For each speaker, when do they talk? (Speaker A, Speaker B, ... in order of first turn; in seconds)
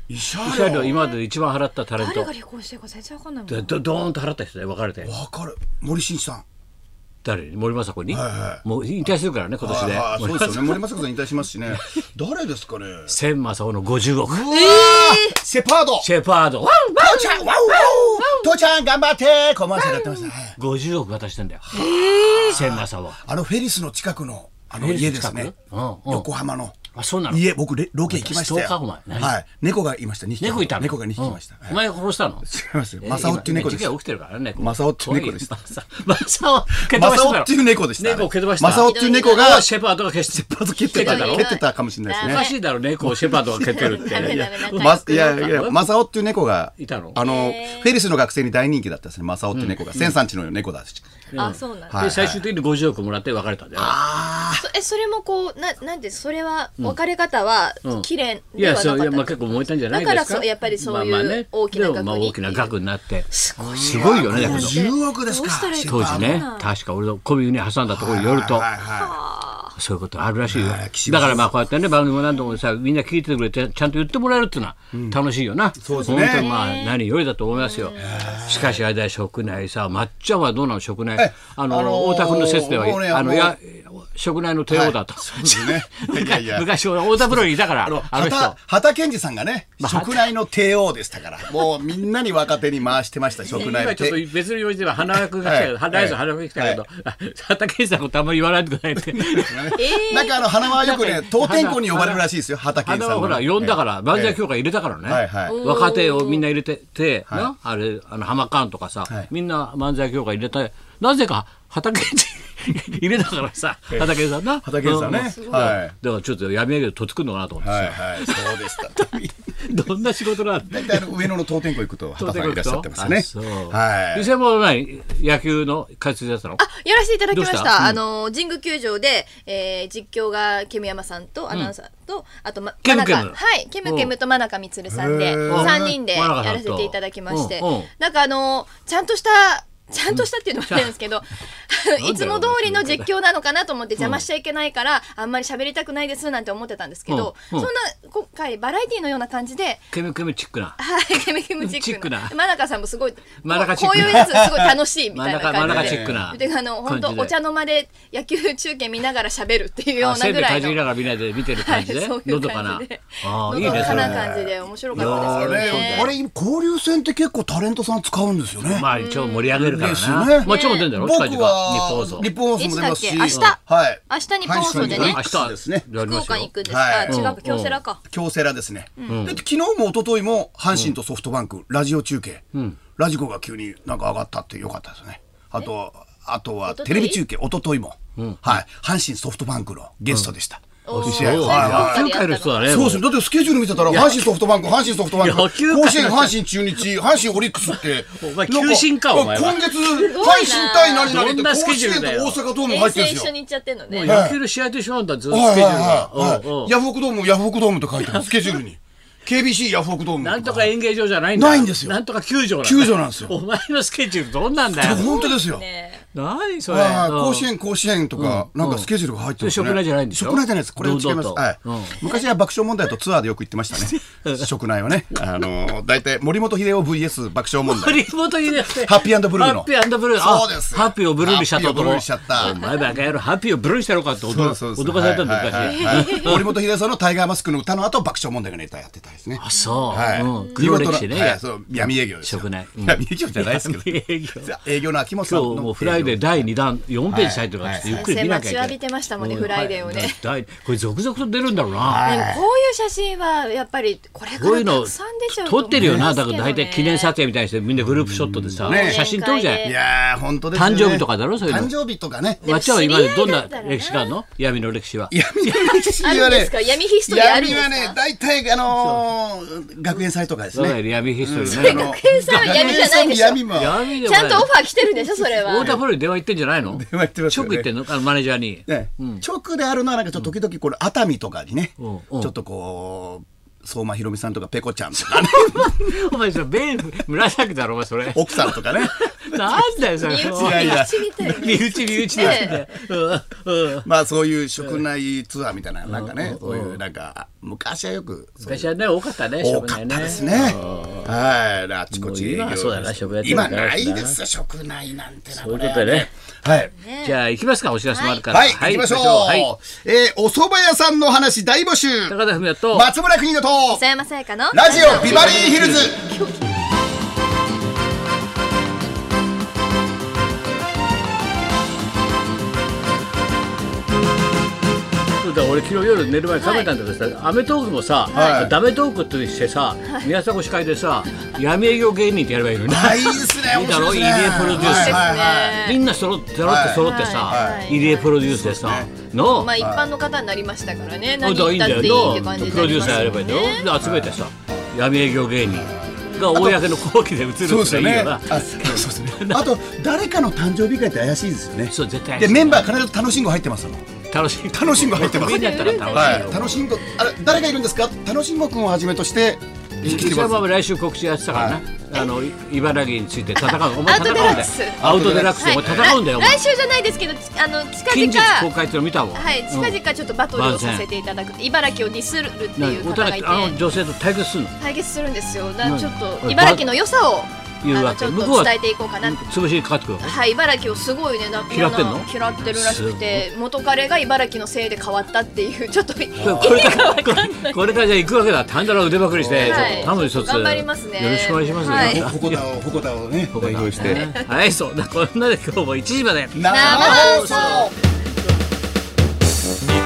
Speaker A: 0.1-1.0, 5.1-6.4, 8.1-9.1, 9.6-13.2, 14.3-16.1, 16.9-20.6, 21.6-25.5, 26.1-31.8, 32.5-33.9, 34.6-35.5, 36.7-39.7, 40.4-42.4, 43.0-51.3, 51.9-52.4, 53.8-54.6, 63.6-66.5, 67.9-69.2, 70.5-71.7, 74.9-75.2, 75.8-76.5, 78.0-78.8, 81.2-83.5, 84.7-94.2, 95.0-96.8, 99.1-104.4, 105.0-105.6, 113.9-115.9, 117.6-119.3, 120.7-124.3, 134.9-135.9, 153.9-154.8, 155.6-156.2, 163.6-168.9, 169.6-175.8, 176.7-177.2, 178.1-182.4, 183.0-192.1, 192.7-203.3, 204.0-204.4, 205.3-210.7, 211.4-212.0, 212.6-213.4, 214.7-215.6, 216.7-232.7, 234.3-246.5, 247.1-248.1, 251.8-252.4, 255.7-256.1, 258.4-259.1, 259.6-262.4, 265.1-273.8, 275.6-275.9, 276.7-277.7, 278.7-286.0, 288.1-289.6, 290.2-292.6, 293.9-298.7, 299.4-306.7, 308.3-313.8, 314.5-316.0, 328.1-328.5, 332.7-335.6, 336.4-338.9, 339.6-339.9, 341.7-343.1, 343.8-344.7, 345.4-346.7, 347.4-353.9, 354.4-360.5, 361.3-361.6, 364.1-365.9, 386.2-386.8, 389.1-389.9, 391.6-394.1, 396.3-397.7
Speaker B: 0.4-2.3, 3.5-5.1, 7.2-10.8, 13.1-14.5, 16.0-17.0, 20.6-21.6, 22.4-23.2, 24.8-26.3, 26.9-27.4, 28.1-29.3, 30.4-32.5, 33.0-41.5, 42.2-45.9, 46.8-47.2, 49.5-50.2, 51.3-54.0, 57.8-64.8, 65.9-68.7, 69.8-88.5, 89.8-90.3, 93.5-99.9, 100.8-102.2, 102.8-121.3, 122.2-126.6, 127.3-128.0, 132.8-134.1, 135.5-137.9, 140.1-140.9, 142.0-143.1, 144.0-144.2, 147.1-147.7, 149.9-150.8, 151.6-152.4, 153.4-154.3, 155.1-157.3, 160.0-164.2, 164.9-166.2, 168.6-172.3, 174.7-176.5, 177.1-177.8, 179.1-179.4, 188.2-188.6, 190.1-190.3, 190.9-193.1, 193.9-194.3, 195.1-196.4, 197.6-199.8, 201.1-202.4, 203.9-206.7, 208.0-208.6, 210.2-215.1, 216.1-217.5, 218.2-218.9, 219.4-222.0, 223.7-224.5, 227.7-236.4, 239.4-244.5, 245.2-252.0, 254.3-259.7, 260.5-261.7, 262.4-265.9, 268.8-269.0, 270.5-279.2, 281.8-282.3, 285.3-293.9, 295.9-296.8, 298.4-301.1, 301.9-304.2, 305.3-306.1, 307.0-309.5, 312.1-312.9, 314.7-316.0, 325.2-335.1, 335.6-339.5, 341.2-349.5, 351.7-352.7, 354.1-356.6, 359.8-366.4, 367.9-369.8, 370.3-370.9, 372.6-374.5, 375.6-376.7, 377.6-380.1, 381.5-383.2, 386.2-392.4, 393.3-397.7
Speaker C: 0.7-1.2, 2.0-3.7, 14.5-15.4, 16.8-18.6, 19.8-20.3, 21.7-22.8, 38.6-39.6, 40.9-42.6, 43.3-45.5, 47.2-47.9, 51.4-52.0, 54.6-62.7, 63.3-66.7, 68.9-69.7, 75.9-77.0, 77.5-78.7, 99.8-100.4, 105.5-106.5, 115.1-115.8, 126.6-149.8, 150.8-160.8, 161.6-166.1, 168.9-169.6, 170.4-170.9, 172.6-175.2, 176.0-178.0, 186.7-187.2, 190.8-193.0, 199.8-201.2, 202.7-204.2, 214.8-216.1, 232.4-232.9, 235.5-236.4, 239.6-240.6, 247.9-250.2, 252.0-257.1, 258.6-259.8, 262.4-264.2, 266.0-268.0, 271.4-275.8, 290.0-292.6, 300.1-301.1, 306.7-307.2, 307.9-308.2, 313.7-316.6, 326.4-326.7, 328.1-328.5, 334.5-335.8, 336.8-338.1, 339.2-343.7, 346.0-346.4, 355.0-356.4, 363.4-368.5, 369.1-373.6, 374.6-379.3, 380.0-387.8, 389.4-392.1, 393.8-394.2, 396.5-397.7